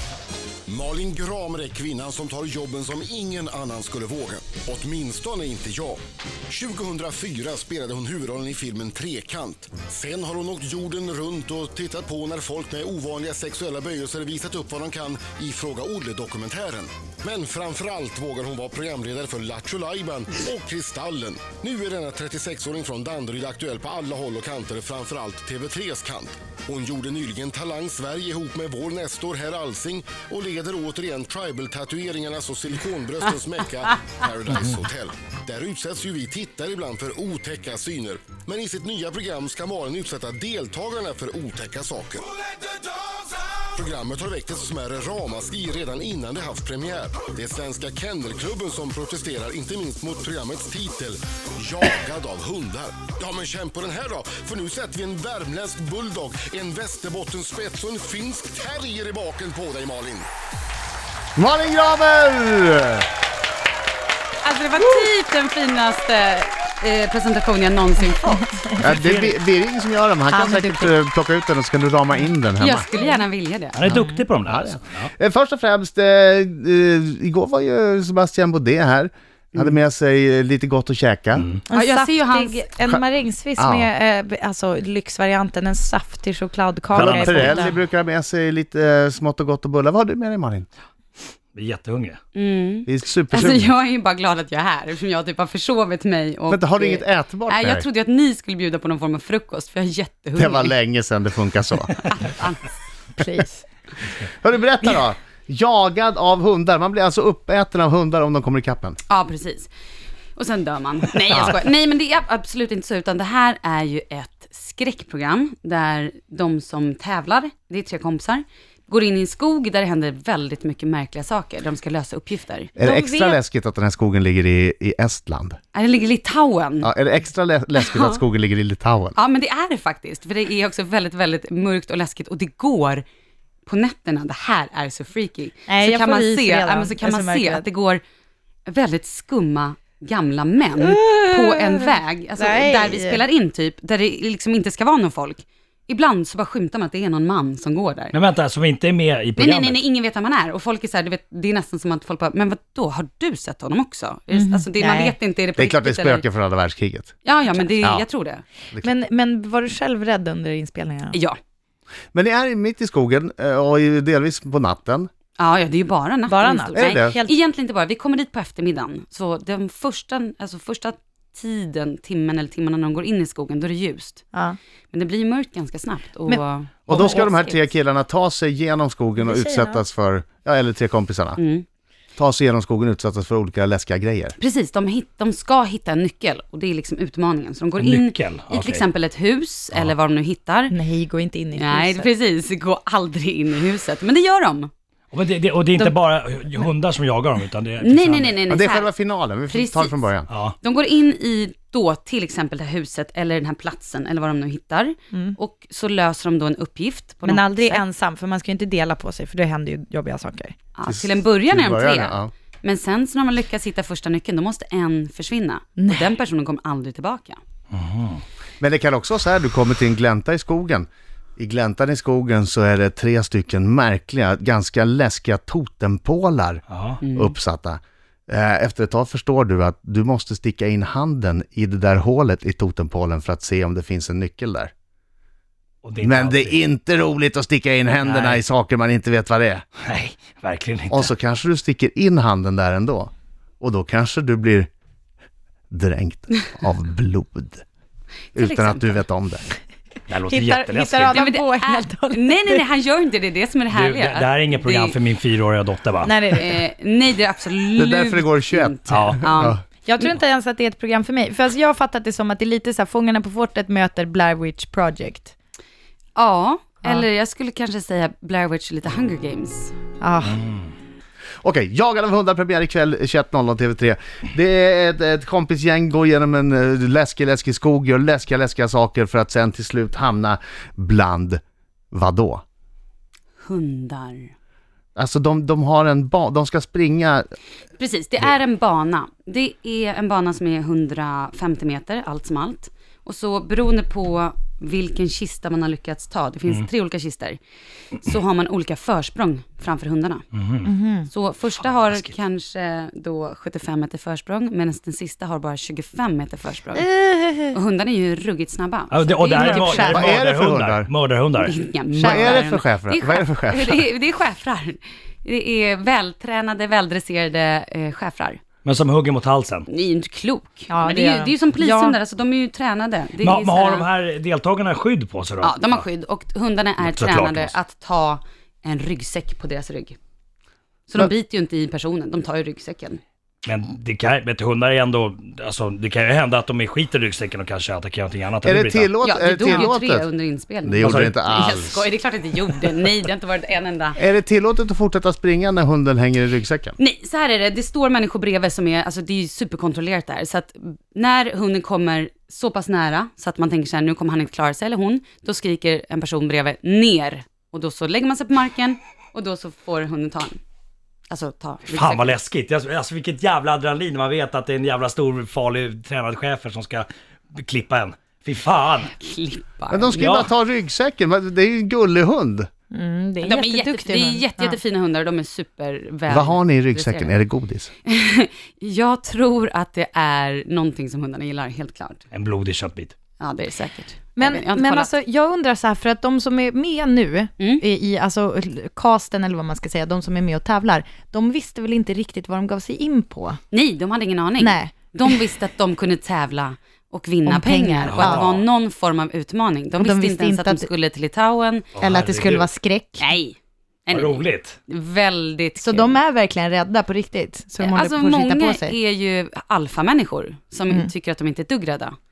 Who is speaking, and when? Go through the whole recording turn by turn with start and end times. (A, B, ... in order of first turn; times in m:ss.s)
0:00.7-1:00.3 A
1:01.4-1:03.1 B
1:04.4-1:08.7 C
1:08.8-1:12.9 B
1:08.8-1:09.4 D
1:10.3-1:11.0 E
1:12.6-1:13.8 C
1:13.7-1:15.1 D
1:13.9-1:21.5 B
1:21.4-1:21.6 D
1:21.7-1:27.8 E
1:21.7-1:22.7 C
1:23.6-1:23.9 B
1:26.9-1:30.7 B
1:27.0-1:27.6 D
1:31.6-1:32.2 D
1:32.4-1:40.8 C
1:32.9-1:33.7 B
1:36.5-1:37.9 B
1:40.4-1:42.0 B
1:42.0-1:42.7 C
1:43.2-1:43.6 E
1:44.2-1:49.0 B
1:49.1-1:49.7 C
1:50.4-2:02.8 C
2:02.8-2:05.6 B
2:02.8-2:03.4 E
2:05.7-2:06.9 C
2:06.8-2:09.2 B
2:07.8-2:08.2 C
2:09.2-2:13.0 C
2:13.7-2:18.0 C
2:15.7-2:17.6 E
2:18.7-2:28.2 C
2:20.8-2:23.2 E
2:28.1-2:29.8 D
2:29.4-2:36.2 C
2:34.3-2:35.2 E
2:35.6-2:37.1 B
2:37.2-2:38.4 C
2:38.8-2:41.2 E
2:41.1-2:41.4 C
2:42.1-2:45.1 B
2:45.4-2:54.3 C
2:46.3-2:47.3 E
2:46.7-2:47.2 B
2:54.3-2:54.6 E
2:54.9-2:57.7 C
2:56.3-2:57.3 E
2:56.9-3:01.4 B
2:59.2-2:59.8 E
3:01.4-3:01.6 C
3:02.2-3:04.4 B
3:04.4-3:10.8 C
3:07.8-3:08.8 D
3:10.7-3:12.1 E
3:11.6-3:14.7 C
3:15.1-3:18.4 D
3:17.8-3:18.9 C
3:18.5-3:20.3 B
3:19.5-3:20.1 C
3:20.3-3:20.6 D
3:20.6-3:27.8 C
3:25.1-3:25.4 E
3:27.2-3:30.6 E
3:30.8-3:37.4 C
3:30.9-3:32.3 B
3:35.8-3:36.0 E
3:37.7-3:38.2 D
3:38.6-3:54.7 B
3:46.7-3:47.0 D
3:47.0-3:47.4 C
3:55.8-3:56.6 D
3:56.0-3:59.6 B
3:58.0-3:58.4 D
3:59.8-4:01.1 D
4:00.9-4:04.7 B
4:05.7-4:07.6 B
4:08.4-4:09.0 C
4:08.4-4:09.5 B
4:10.1-4:11.3 D
4:10.3-4:12.6 E
4:11.1-4:15.0 C
4:13.7-4:16.2 D
4:16.0-4:16.6 E
4:16.3-4:19.6 C
4:17.8-4:19.6 B
4:18.9-4:19.3 D
4:19.8-4:25.3 E
4:26.2-4:29.8 C
4:30.0-4:30.4 E
4:30.3-4:30.7 D
4:31.4-4:41.4 B
4:41.9-4:42.4 B
4:43.4-4:44.3 C
4:45.0-4:47.2 B
4:47.8-4:57.4 C
4:58.0-5:00.2 C
5:00.3-5:00.8 D
5:00.6-5:01.1 E
5:01.1-5:06.9 C
5:01.5-5:02.2 D
5:06.7-5:07.6 E
5:07.5-5:10.1 C
5:08.9-5:11.6 D
5:09.4-5:10.2 E
5:09.9-5:10.9 B
5:11.4-5:18.4 C
5:11.9-5:12.5 E
5:12.0-5:13.8 B
5:18.6-5:19.7 D
5:19.7-5:23.9 C
5:20.7-5:22.0 E
5:23.2-5:25.8 D
5:25.4-5:30.0 C
5:26.8-5:27.5 D
5:30.9-5:33.0 C
5:33.4-5:38.9 D
5:38.4-5:40.1 B
5:39.0-5:44.0 C
5:40.6-5:41.9 B
5:40.8-5:41.2 D
5:44.0-5:46.8 B
5:46.8-6:00.4 C
6:01.1-6:02.2 C
6:01.7-6:08.9 D
6:08.9-6:10.2 C
6:09.7-6:12.5 B
6:12.7-6:14.6 E
6:13.2-6:17.2 C
6:16.1-6:17.7 B
6:17.9-6:22.0 C
6:22.1-6:22.9 D
6:23.2-6:24.9 C
6:24.2-6:33.4 E
6:27.4-6:27.6 C
6:33.5-6:41.7 C
6:34.4-6:35.2 E
6:37.3-6:38.3 E
6:37.9-6:38.4 D
6:39.8-6:40.7 E
6:41.8-6:42.5 D
6:41.8-6:43.1 E
6:43.0-6:46.0 C
6:43.9-6:44.6 D
6:45.6-6:48.8 E
6:47.6-6:52.0 C